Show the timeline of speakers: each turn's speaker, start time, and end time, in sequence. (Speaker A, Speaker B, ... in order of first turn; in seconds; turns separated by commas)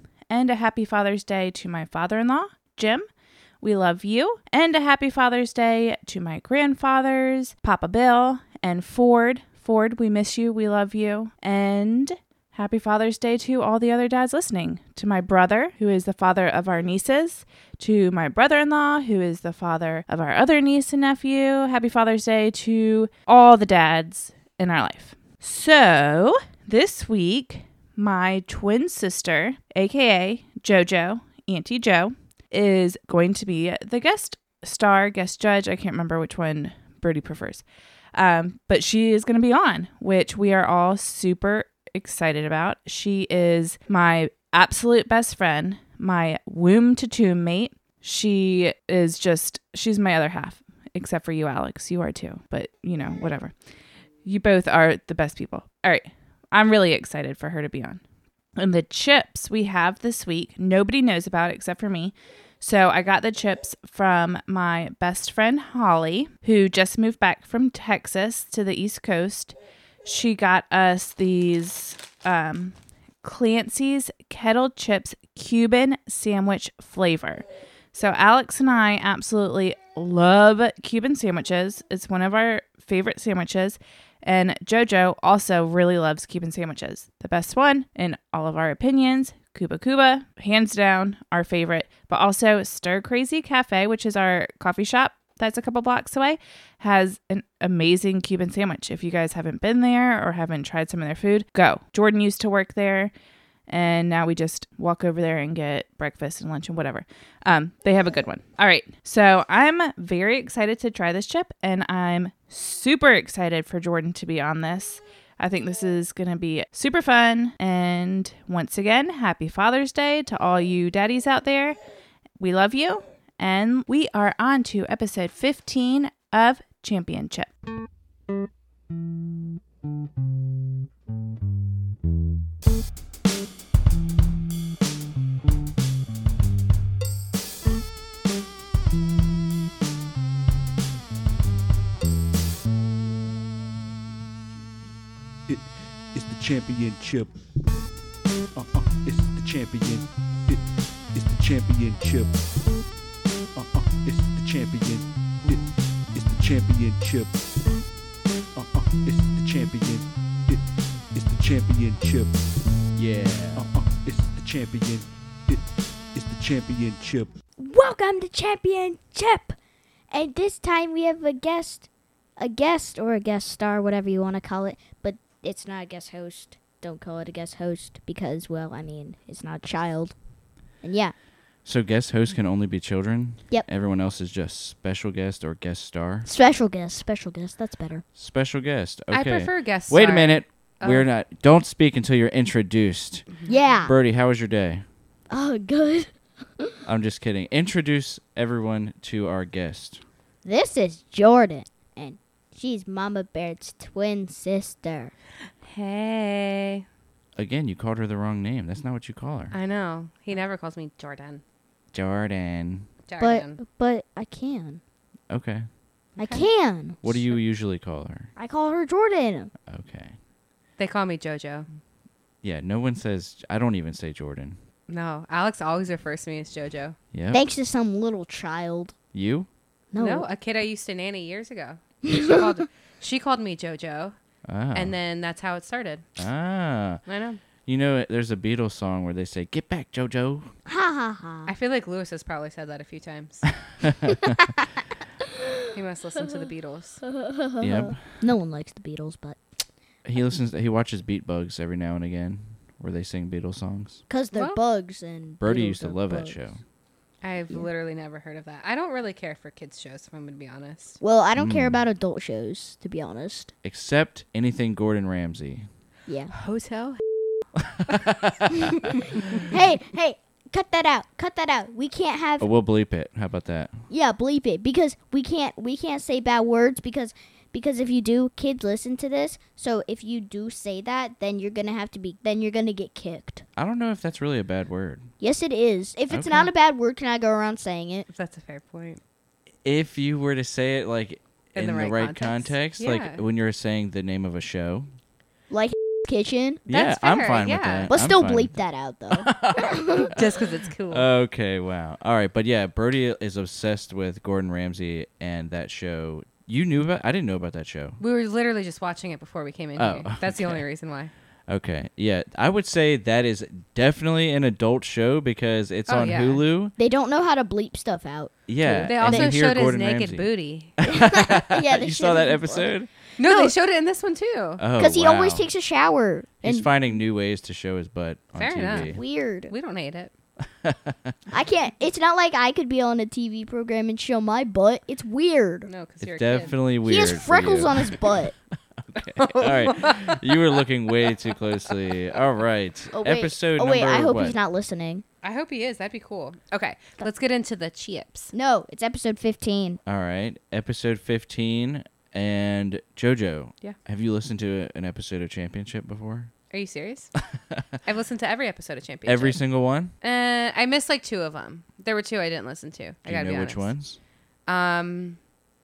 Speaker A: 0.3-3.1, Speaker A: 3.6-53.5, Speaker A: 54.2-58.0, Speaker A: 58.6-103.1, Speaker A: 103.7-121.8, Speaker A: 122.4-127.5, Speaker B: 145.5-147.3, Speaker B: 148.5-152.4, Speaker B: 153.6-157.4, Speaker B: 158.6-162.4, Speaker C: 163.0-163.7, Speaker B: 163.6-167.3, Speaker D: 167.6-169.6, Speaker D: 170.1-171.9, Speaker D: 172.4-180.2, Speaker D: 180.8-181.1, Speaker C: 181.7-186.3, Speaker D: 186.3-188.0, Speaker C: 188.2-193.3, Speaker E: 189.1-191.1, Speaker E: 193.3-193.6, Speaker D: 193.5-193.9, Speaker C: 193.8-194.8, Speaker D: 195.3-196.8, Speaker C: 196.8-200.0, Speaker D: 200.4-205.1, Speaker E: 205.6-206.9, Speaker C: 207.4-209.6, Speaker E: 209.5-211.4, Speaker C: 211.9-212.9, Speaker E: 213.1-213.6, Speaker D: 213.2-214.8, Speaker C: 215.3-215.7, Speaker E: 216.2-216.4, Speaker D: 216.2-217.2, Speaker C: 217.0-218.3, Speaker D: 218.4-219.5, Speaker C: 219.7-220.2, Speaker E: 220.8-221.7, Speaker C: 222.4-224.6, Speaker E: 224.9-227.0, Speaker C: 227.1-227.4, Speaker D: 227.3-229.0, Speaker C: 229.1-229.5, Speaker D: 229.9-230.3, Speaker E: 230.0-234.2, Speaker D: 232.1-232.5, Speaker C: 234.5-234.9, Speaker E: 234.7-236.1, Speaker C: 236.2-237.0, Speaker E: 237.1-237.4, Speaker C: 237.7-240.5, Speaker D: 240.7-241.5, Speaker E: 241.5-243.5, Speaker C: 243.8-244.4, Speaker E: 245.7-247.0, Speaker D: 247.0-249.4, Speaker C: 247.6-248.0, Speaker C: 250.1-254.0, Speaker D: 254.1-256.4, Speaker E: 254.3-254.6, Speaker C: 255.4-256.6, Speaker E: 257.2-261.0, Speaker D: 261.0-263.5, Speaker C: 261.4-261.8, Speaker C: 263.6-265.7, Speaker D: 266.1-266.3, Speaker E: 266.3-267.0, Speaker C: 267.7-268.7, Speaker D: 269.4-272.5, Speaker C: 272.4-273.8, Speaker D: 273.9-283.4, Speaker C: 283.6-285.1, Speaker D: 285.2-288.1, Speaker C: 286.1-286.5, Speaker E: 288.1-289.0, Speaker C: 289.6-294.9, Speaker E: 291.5-293.2, Speaker D: 295.5-296.6, Speaker C: 296.7-298.5, Speaker E: 296.7-297.9, Speaker D: 297.9-300.1, Speaker C: 299.1-300.4, Speaker E: 300.1-301.1, Speaker C: 300.9-308.0, Speaker E: 308.0-311.1, Speaker C: 309.8-310.6, Speaker C: 311.5-316.7, Speaker E: 315.9-316.4, Speaker D: 316.8-319.4, Speaker C: 318.5-322.9, Speaker E: 318.8-320.8, Speaker D: 320.9-323.5, Speaker E: 323.2-324.6, Speaker C: 324.6-325.5, Speaker D: 324.8-326.7, Speaker C: 326.4-329.0, Speaker E: 328.4-329.0, Speaker D: 328.8-329.5, Speaker E: 329.5-330.1, Speaker C: 330.6-331.1, Speaker D: 331.3-335.7, Speaker E: 335.7-336.6, Speaker C: 336.0-338.1, Speaker D: 336.9-338.4, Speaker C: 338.9-344.4, Speaker E: 339.2-340.2, Speaker D: 342.9-345.1, Speaker E: 345.2-348.3, Speaker D: 348.3-349.8, Speaker C: 349.9-356.3, Speaker E: 356.5-357.1, Speaker E: 357.8-359.4, Speaker C: 359.1-359.9, Speaker E: 360.0-363.7, Speaker C: 363.1-364.0, Speaker E: 364.5-365.2